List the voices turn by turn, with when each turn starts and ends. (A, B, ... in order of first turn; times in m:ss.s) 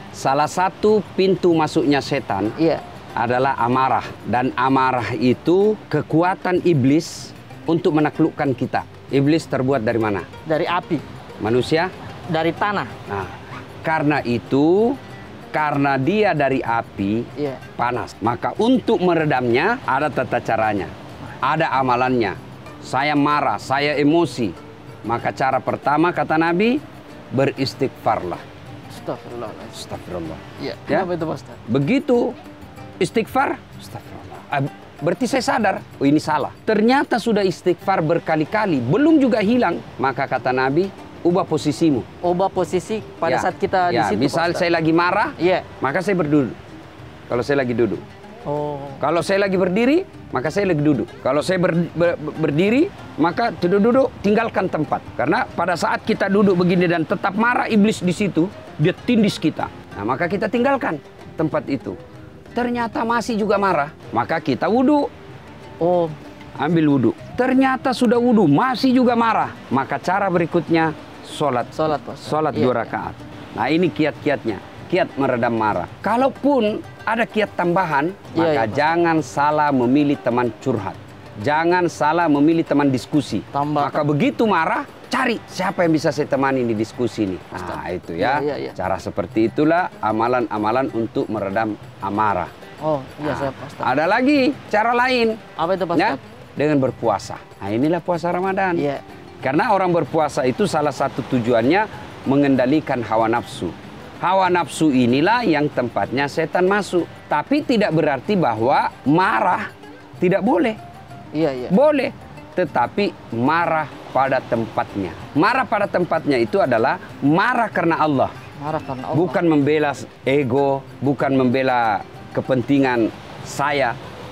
0:00.2-0:02.5 A
0:02.6-0:02.8 B
0:03.2-0:10.3 A
0:10.5-0:11.0 B
0:11.4-0:11.9 A
0:12.3-0:12.9 B
0:13.1-0:15.0 A
0:15.5-0:20.9 A
0:17.4-0:17.6 B
0:21.4-0:24.6 A
0:25.1-0:26.8 A
0:27.3-0:28.4 A
0:28.9-0:29.8 B
0:29.8-0:31.1 A
0:30.6-0:31.6 B
0:31.7-0:32.4 A
0:33.0-0:42.1 A
0:42.2-0:44.6 B
0:43.2-0:46.6 A
0:45.4-0:45.7 B
0:47.3-0:48.0 A
0:48.5-0:49.0 B
0:49.0-1:02.0 A
1:02.5-1:05.1 A
1:05.8-1:06.2 B
1:06.6-1:32.5 A
1:11.7-1:12.9 B
1:18.3-1:19.0 B
1:23.5-1:24.0 B
1:27.5-1:28.8 B
1:32.8-1:33.9 B
1:33.2-1:35.4 A
1:35.6-1:36.2 B
1:35.9-1:38.8 A
1:38.7-1:39.0 B
1:39.4-1:49.7 A
1:50.2-1:50.8 A
1:51.3-1:51.7 B
1:51.7-1:58.3 A
1:58.6-1:59.4 B
1:59.1-2:04.0 A